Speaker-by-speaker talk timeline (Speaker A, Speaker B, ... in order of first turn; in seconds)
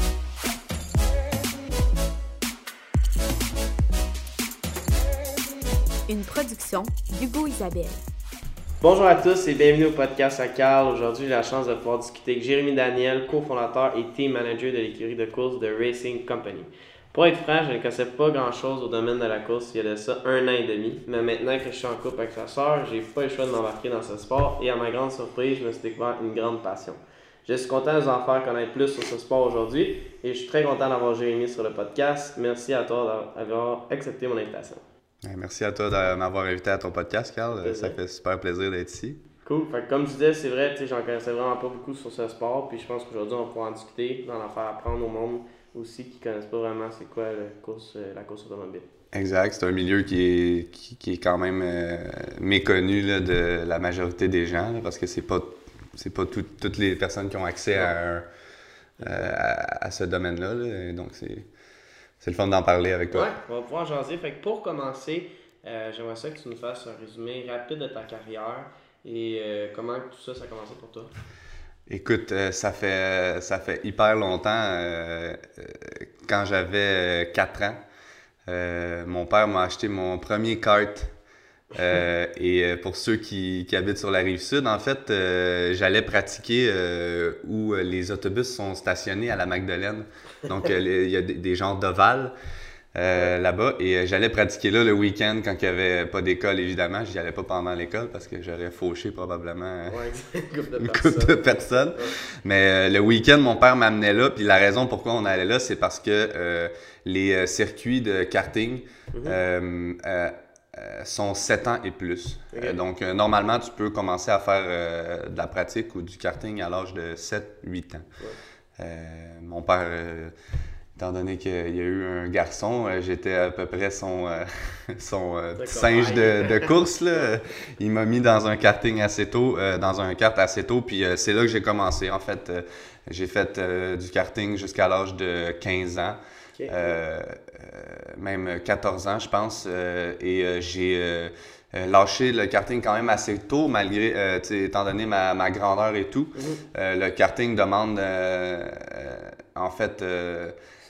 Speaker A: 6.1-8.0
Speaker B: 8.8-34.8, 37.5-38.0, 39.4-48.9, 59.0-59.3, 63.1-71.1, 99.9-102.1, 109.1-109.4, 112.5-112.8, 125.6-127.3, 136.6-136.9, 146.3-146.6
Speaker C: 35.2-39.2, 49.1-58.3, 59.0-61.5, 62.2-63.3, 71.9-77.8, 78.5-81.1, 81.7-92.3, 92.9-100.0, 100.8-118.1, 118.8-120.3, 121.0-150.5